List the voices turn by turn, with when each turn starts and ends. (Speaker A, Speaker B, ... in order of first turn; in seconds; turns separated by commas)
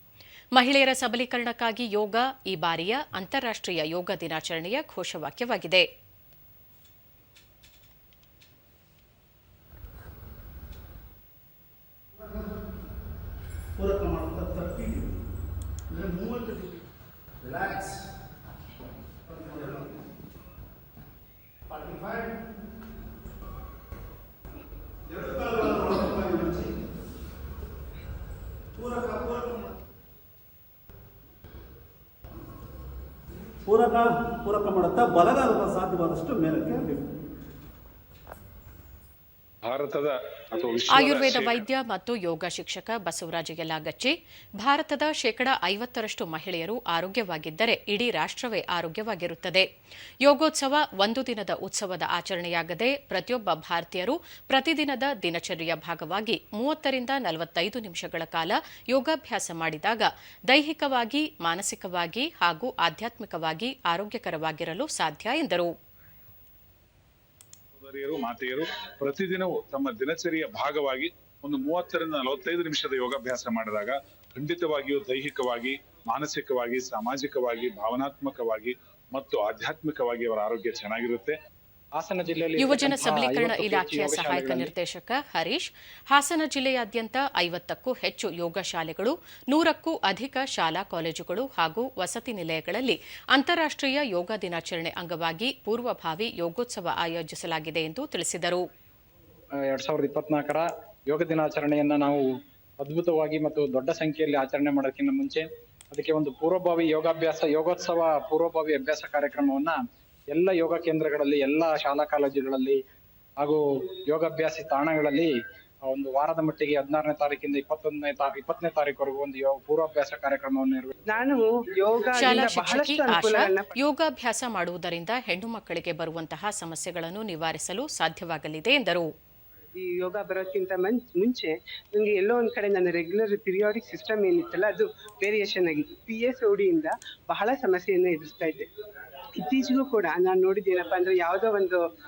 Speaker A: 0.5-5.8, Speaker B: 13.8-15.1, Speaker B: 15.9-16.8, Speaker B: 17.4-18.0, Speaker B: 19.5-19.7, Speaker B: 21.8-22.3, Speaker B: 25.1-26.7, Speaker B: 28.8-29.7, Speaker B: 33.6-37.1, Speaker C: 39.6-41.6, Speaker A: 40.9-49.6, Speaker A: 50.2-65.7, Speaker C: 67.8-81.3, Speaker D: 82.0-84.7, Speaker A: 82.6-98.6, Speaker D: 99.6-102.2, Speaker D: 102.8-109.8, Speaker D: 110.3-112.8, Speaker D: 113.4-115.3, Speaker D: 115.8-120.9, Speaker E: 121.1-123.8, Speaker A: 122.2-129.1, Speaker E: 129.8-138.6, Speaker E: 139.4-141.8